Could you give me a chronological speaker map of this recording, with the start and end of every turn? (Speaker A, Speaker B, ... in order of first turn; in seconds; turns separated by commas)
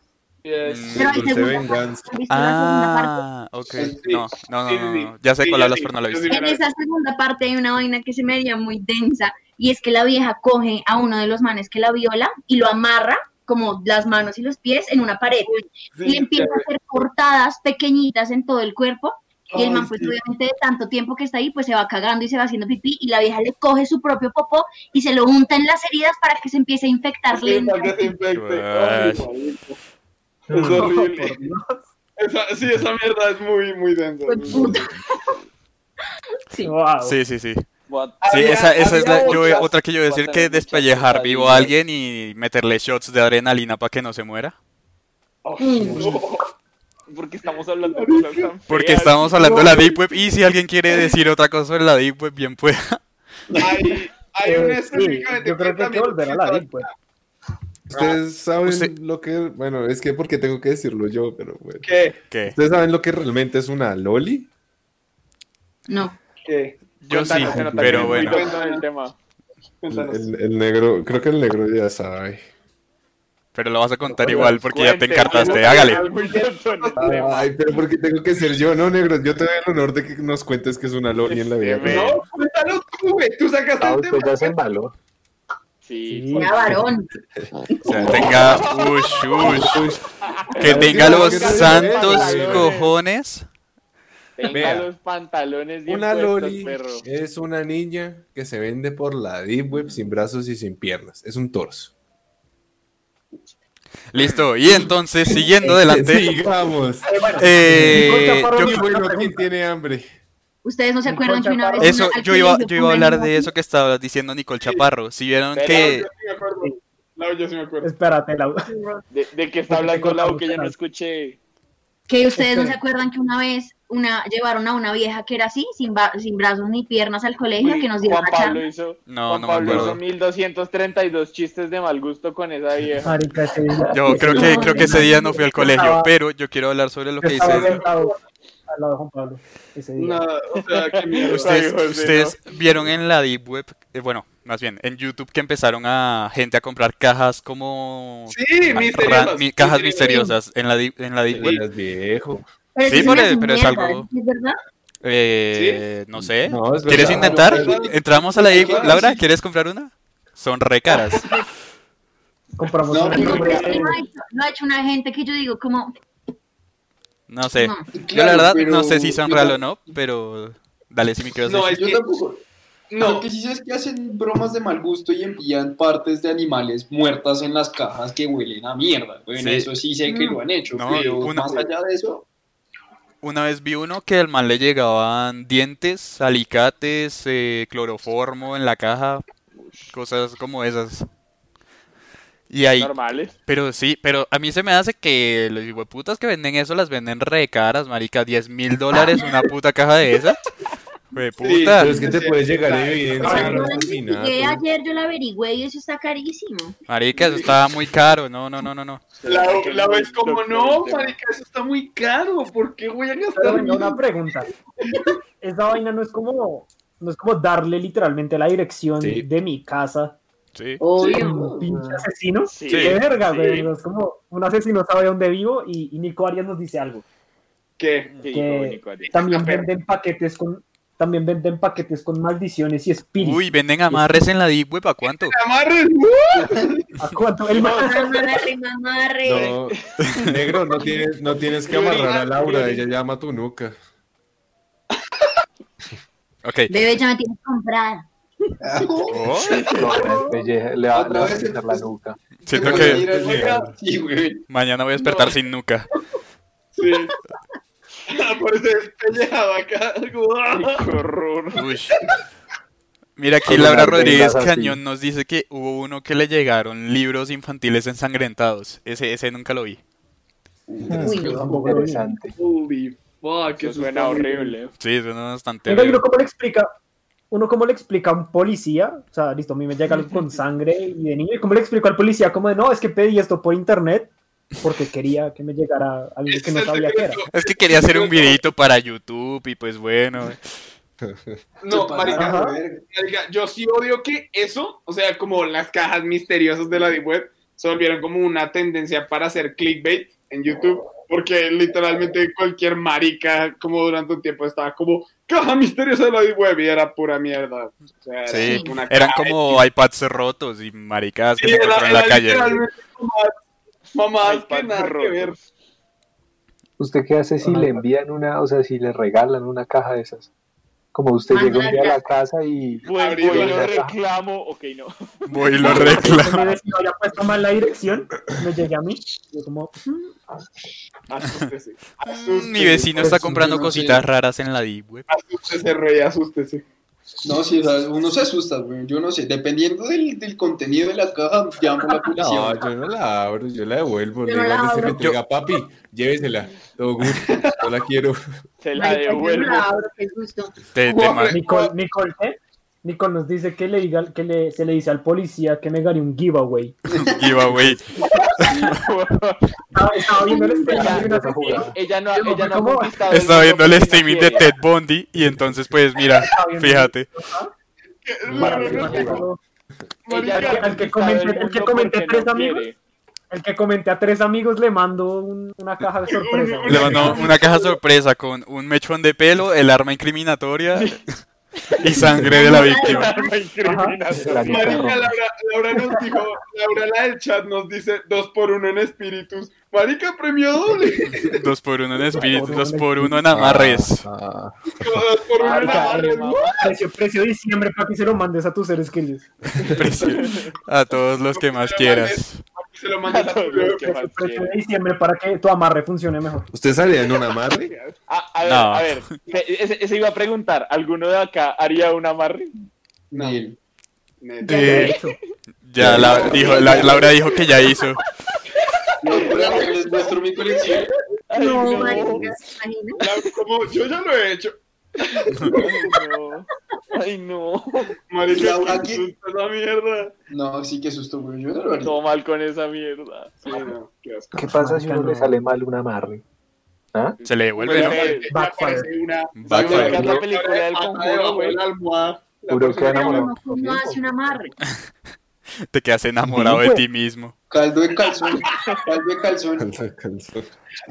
Speaker A: 0.4-1.1, Speaker B: 0.6-1.1, Speaker C: 0.9-3.2, Speaker D: 0.9-2.1, Speaker B: 2.3-6.4, Speaker E: 3.7-4.0, Speaker A: 4.0-6.6, Speaker C: 6.3-15.5, Speaker A: 15.4-16.6, Speaker C: 16.0-28.1, Speaker A: 19.5-20.2, Speaker A: 27.3-29.8, Speaker B: 28.3-29.2, Speaker A: 30.5-31.5, Speaker F: 30.5-31.8, Speaker A: 32.2-34.8, Speaker C: 34.3-35.2, Speaker F: 36.6-37.2, Speaker B: 37.0-37.6, Speaker G: 37.9-41.7, Speaker A: 38.2-39.7, Speaker B: 38.2-44.5, Speaker G: 45.4-46.2, Speaker C: 45.6-46.1, Speaker A: 45.8-46.5, Speaker G: 47.1-49.6, Speaker A: 47.8-48.5, Speaker B: 48.7-53.0, Speaker A: 49.4-50.0, Speaker A: 53.6-56.9, Speaker F: 54.4-56.9, Speaker D: 57.9-64.5, Speaker A: 57.9-58.2, Speaker B: 58.6-58.9, Speaker A: 61.8-62.2, Speaker B: 62.3-62.5, Speaker C: 65.9-66.2, Speaker A: 66.4-66.8, Speaker B: 67.0-68.5, Speaker G: 67.0-69.1, Speaker D: 67.4-68.3, Speaker A: 68.1-68.8, Speaker A: 69.8-70.3, Speaker D: 69.9-72.4, Speaker B: 73.5-76.0, Speaker D: 74.1-74.5, Speaker G: 74.2-77.2, Speaker A: 75.2-77.5, Speaker D: 77.0-82.2, Speaker G: 81.2-82.2, Speaker A: 81.9-84.6, Speaker H: 83.8-84.9, Speaker G: 85.8-86.7, Speaker F: 86.1-86.7, Speaker C: 86.3-87.1, Speaker B: 87.8-89.8, Speaker C: 87.8-88.1, Speaker G: 88.3-89.1, Speaker D: 89.4-90.0, Speaker G: 90.3-92.9, Speaker D: 90.6-92.8, Speaker B: 90.6-93.4, Speaker F: 90.7-91.0, Speaker G: 94.4-97.0, Speaker D: 94.5-94.9, Speaker D: 95.9-101.9, Speaker B: 104.1-106.4, Speaker D: 105.6-110.1, Speaker F: 107.0-109.5, Speaker B: 107.4-108.8, Speaker C: 110.6-113.5, Speaker F: 111.0-112.0, Speaker B: 111.8-116.1, Speaker A: 114.6-114.9, Speaker G: 115.5-115.9, Speaker A: 115.7-117.9, Speaker F: 117.8-118.7, Speaker C: 118.7-119.0, Speaker G: 119.1-121.4, Speaker F: 119.7-120.7, Speaker C: 122.1-128.6, Speaker F: 122.4-122.8, Speaker G: 127.6-133.2, Speaker B: 129.1-130.0, Speaker F: 133.0-136.1, Speaker B: 133.9-137.8, Speaker C: 134.3-135.4, Speaker F: 137.2-138.1, Speaker A: 137.4-138.2, Speaker F: 138.7-140.2, Speaker A: 140.0-141.6, Speaker G: 140.7-142.4, Speaker B: 141.3-151.6, Speaker A: 148.3-150.3, Speaker C: 150.0-150.3, Speaker D: 151.3-152.4, Speaker C: 152.7-154.6, Speaker B: 152.8-154.1, Speaker B: 155.0-161.2, Speaker A: 155.5-155.8, Speaker D: 156.2-157.8, Speaker E: 156.9-159.2, Speaker A: 157.2-159.1, Speaker C: 161.2-161.4, Speaker F: 162.6-164.0, Speaker E: 162.9-163.9, Speaker C: 163.1-165.9, Speaker B: 167.3-171.9, Speaker C: 167.6-167.9, Speaker E: 167.9-170.0, Speaker E: 171.5-172.4, Speaker A: 172.9-173.2, Speaker E: 173.0-182.2, Speaker B: 179.4-179.7, Speaker C: 180.1-180.4, Speaker B: 180.7-181.7, Speaker B: 183.2-189.2, Speaker G: 189.6-189.9, Speaker B: 189.9-191.1, Speaker B: 192.5-192.9, Speaker G: 192.8-193.3, Speaker B: 193.5-200.4, Speaker C: 198.9-199.4, Speaker B: 201.1-202.0, Speaker A: 201.4-203.8, Speaker D: 201.8-204.6, Speaker C: 203.2-206.8, Speaker F: 203.3-203.6, Speaker B: 206.9-209.1, Speaker A: 207.1-207.6, Speaker G: 209.2-211.1, Speaker A: 209.2-214.0, Speaker F: 213.3-214.5, Speaker C: 214.9-215.1, Speaker F: 215.4-220.2, Speaker D: 219.0-219.2, Speaker B: 220.5-220.8, Speaker C: 220.8-221.6, Speaker E: 221.0-222.0, Speaker F: 221.0-227.0, Speaker G: 222.5-223.7, Speaker B: 222.7-223.0, Speaker A: 227.8-228.1, Speaker G: 228.2-229.1, Speaker F: 228.3-234.2, Speaker A: 229.1-229.7, Speaker B: 233.2-235.4, Speaker A: 235.1-236.9, Speaker F: 237.0-238.3, Speaker G: 237.5-238.0, Speaker C: 237.6-239.6, Speaker D: 239.2-243.7, Speaker G: 239.4-240.3, Speaker B: 240.0-240.4, Speaker A: 241.6-242.9, Speaker B: 246.4-246.7, Speaker C: 246.7-248.5, Speaker E: 248.6-249.8, Speaker B: 249.1-249.7, Speaker G: 249.5-249.9, Speaker H: 249.7-252.2, Speaker A: 249.9-250.2, Speaker C: 249.9-250.3, Speaker E: 250.9-251.9, Speaker B: 252.4-253.0, Speaker E: 252.5-254.4, Speaker D: 252.6-253.7, Speaker B: 254.5-255.9, Speaker A: 255.0-255.3, Speaker A: 256.7-257.1, Speaker A: 258.1-260.9, Speaker G: 260.5-261.6, Speaker B: 261.5-261.9, Speaker B: 263.2-269.8, Speaker H: 263.4-264.8, Speaker E: 270.7-271.1, Speaker H: 270.9-272.4, Speaker C: 270.9-271.4, Speaker F: 271.0-272.1, Speaker A: 272.4-274.6, Speaker G: 273.6-274.7, Speaker B: 274.8-276.0, Speaker F: 275.7-276.7, Speaker F: 277.3-287.2, Speaker A: 286.3-288.4, Speaker B: 287.3-290.4, Speaker D: 291.0-291.3, Speaker A: 291.6-309.6, Speaker E: 291.6-292.8, Speaker F: 292.1-292.6, Speaker B: 308.3-312.6, Speaker C: 308.3-308.8, Speaker A: 311.4-313.4, Speaker A: 313.9-315.3, Speaker G: 314.2-315.4, Speaker H: 316.8-320.3, Speaker F: 317.4-317.8, Speaker H: 320.9-324.0, Speaker C: 321.3-322.0, Speaker G: 322.8-326.0, Speaker A: 322.9-323.9, Speaker B: 325.2-326.5, Speaker F: 325.6-330.1, Speaker A: 331.1-333.1, Speaker B: 332.1-335.1, Speaker E: 333.0-334.0, Speaker A: 335.1-336.6, Speaker E: 337.2-342.7, Speaker D: 342.1-348.2, Speaker C: 344.2-345.1, Speaker A: 347.1-347.6, Speaker G: 348.6-349.7, Speaker C: 348.7-350.6, Speaker B: 350.7-351.4, Speaker A: 350.9-351.7, Speaker F: 351.3-356.8, Speaker E: 356.9-357.4, Speaker B: 357.0-357.8, Speaker B: 358.4-358.8, Speaker G: 358.4-359.4, Speaker F: 359.7-363.0, Speaker C: 360.2-361.0, Speaker G: 360.7-364.5, Speaker H: 360.8-361.7, Speaker B: 363.1-367.1, Speaker F: 366.1-367.5, Speaker A: 368.0-369.2, Speaker F: 368.3-369.4, Speaker H: 368.3-369.2, Speaker A: 370.0-370.8, Speaker G: 370.1-372.8, Speaker F: 370.3-372.6, Speaker F: 373.3-377.3, Speaker A: 376.1-377.8, Speaker B: 376.7-381.0, Speaker G: 380.7-381.0, Speaker G: 381.7-384.9, Speaker B: 381.8-383.1, Speaker H: 382.0-382.4, Speaker C: 382.2-383.3, Speaker F: 383.6-384.0, Speaker H: 384.1-385.1, Speaker A: 384.5-391.4, Speaker B: 391.2-394.0, Speaker F: 392.1-393.2, Speaker H: 393.3-394.5, Speaker A: 394.8-396.7, Speaker G: 395.4-396.7, Speaker F: 395.4-400.1, Speaker B: 399.7-402.4, Speaker G: 400.0-400.5, Speaker A: 401.3-403.9, Speaker G: 403.1-404.5, Speaker F: 403.8-406.5, Speaker D: 406.5-407.7, Speaker A: 407.2-407.9, Speaker G: 408.1-412.5, Speaker B: 408.4-409.2, Speaker E: 413.1-413.6, Speaker A: 413.1-413.4, Speaker A: 414.2-414.9, Speaker F: 414.4-415.2, Speaker B: 414.4-414.9, Speaker G: 414.7-415.3, Speaker B: 415.6-418.0, Speaker D: 415.8-416.6, Speaker A: 416.0-417.1, Speaker G: 416.2-417.8, Speaker E: 416.3-417.1, Speaker E: 419.0-420.9, Speaker A: 419.1-419.7, Speaker G: 419.1-419.7, Speaker G: 421.3-422.3, Speaker C: 421.3-423.0, Speaker A: 421.6-422.0, Speaker A: 423.0-426.0, Speaker G: 425.5-427.9, Speaker A: 428.1-430.1, Speaker E: 428.3-429.1, Speaker E: 430.3-432.0, Speaker G: 431.8-433.7, Speaker A: 433.4-434.3, Speaker H: 434.3-436.2, Speaker F: 434.5-435.4, Speaker G: 437.2-438.3, Speaker B: 437.2-438.2, Speaker A: 437.6-443.3, Speaker F: 438.3-438.9, Speaker B: 439.4-440.1, Speaker G: 439.4-441.6, Speaker H: 439.7-440.2, Speaker H: 442.5-444.0, Speaker C: 442.8-444.6, Speaker B: 445.7-447.3, Speaker H: 446.2-446.8, Speaker E: 447.5-449.7, Speaker A: 448.4-448.8, Speaker D: 449.6-450.5